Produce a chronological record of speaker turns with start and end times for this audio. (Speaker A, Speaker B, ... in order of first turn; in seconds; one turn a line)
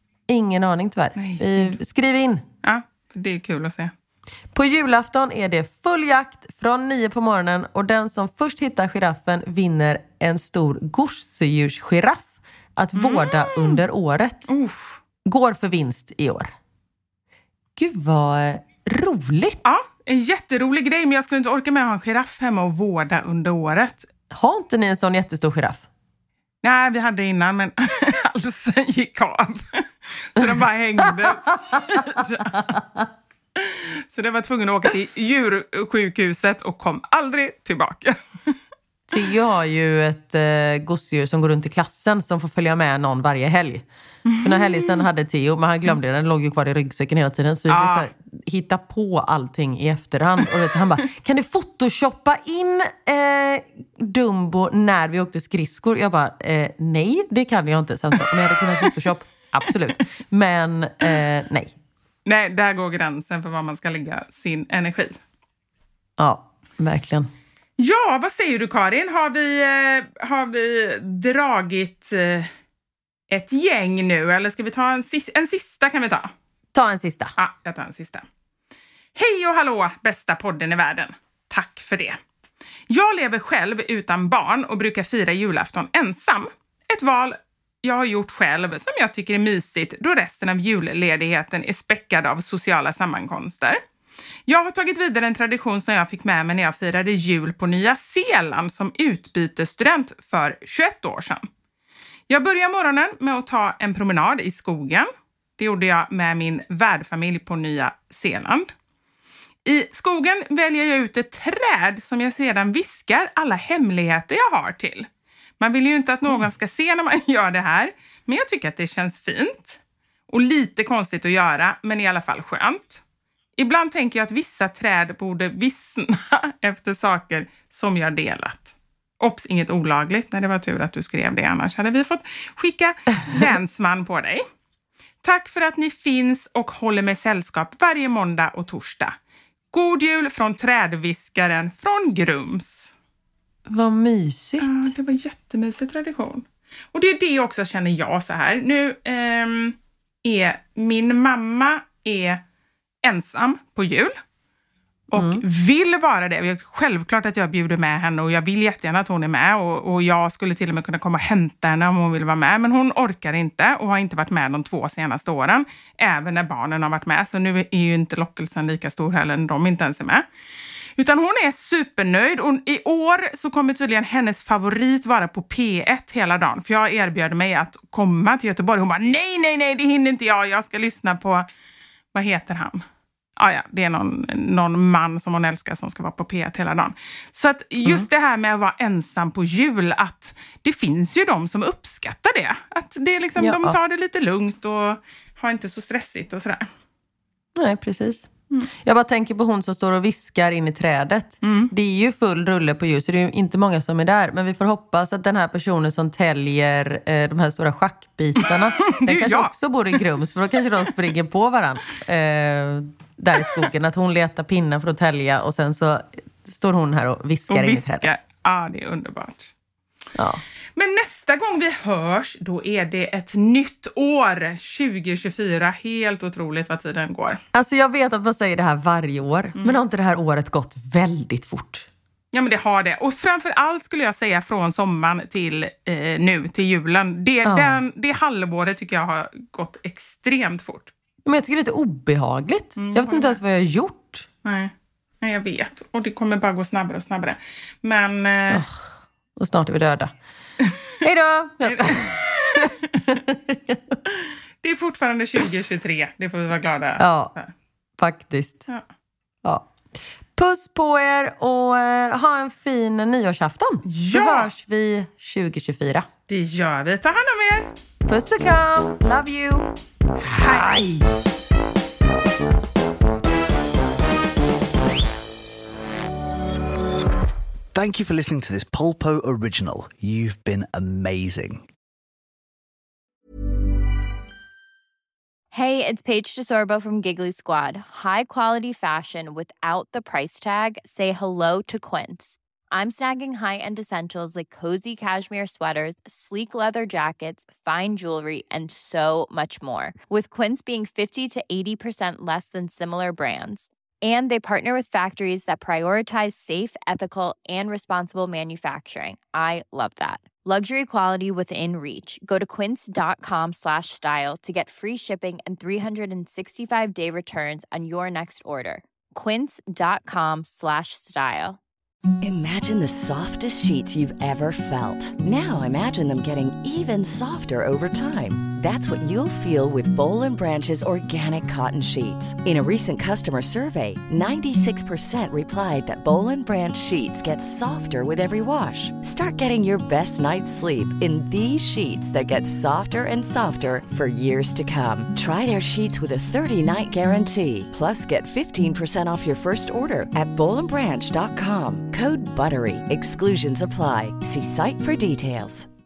Speaker A: 0.3-2.4
Speaker B: 1.2-1.8
Speaker B: 2.6-3.9
Speaker A: 4.5-14.5
Speaker B: 12.9-13.8
Speaker B: 14.5-15.0
Speaker A: 15.2-16.5
Speaker A: 17.8-19.6
Speaker B: 19.6-24.1
Speaker A: 24.3-25.9
Speaker B: 26.6-32.7
Speaker A: 32.6-33.0
Speaker B: 33.6-38.5
Speaker A: 39.1-43.9
Speaker B: 44.3-45.1
Speaker A: 44.4-61.7
Speaker B: 47.7-48.1
Speaker B: 62.3-65.2
Speaker A: 66.2-67.3
Speaker B: 67.8-72.5
Speaker B: 73.3-76.3
Speaker A: 76.7-77.3
Speaker B: 77.4-78.2
Speaker B: 79.2-82.2
Speaker B: 82.9-93.8
Speaker B: 94.5-101.5
Speaker B: 102.3-108.7
Speaker B: 109.7-115.1
Speaker B: 115.6-123.0
Speaker B: 123.6-134.4
Speaker B: 135.2-139.2
Speaker B: 139.7-142.9
Speaker A: 143.7-144.9
Speaker B: 144.6-152.4
Speaker B: 153.0-154.2
Speaker B: 155.1-170.2
Speaker A: 155.1-155.4
Speaker B: 171.0-181.5
Speaker B: 182.1-182.8
Speaker B: 183.4-196.7
Speaker A: 193.4-193.8
Speaker A: 197.6-198.3
Speaker A: 198.8-218.1
Speaker B: 201.4-201.7
Speaker B: 208.4-210.0
Speaker B: 217.5-219.5
Speaker A: 220.2-220.4
Speaker B: 220.8-227.4
Speaker A: 227.5-231.9
Speaker B: 232.3-240.9
Speaker A: 237.4-237.8
Speaker A: 241.2-244.3
Speaker B: 242.8-243.4
Speaker B: 244.4-248.6
Speaker A: 248.5-248.8
Speaker A: 249.4-250.1
Speaker A: 251.0-254.0
Speaker B: 251.7-252.7
Speaker B: 254.6-257.5
Speaker A: 257.0-257.3
Speaker A: 258.0-258.7
Speaker A: 259.4-259.7
Speaker A: 260.4-266.1
Speaker B: 263.9-264.5
Speaker B: 266.3-267.7
Speaker A: 268.1-269.7
Speaker B: 270.3-271.0
Speaker A: 270.3-270.9
Speaker C: 277.7-281.7
Speaker D: 285.5-321.6
Speaker E: 322.2-355.7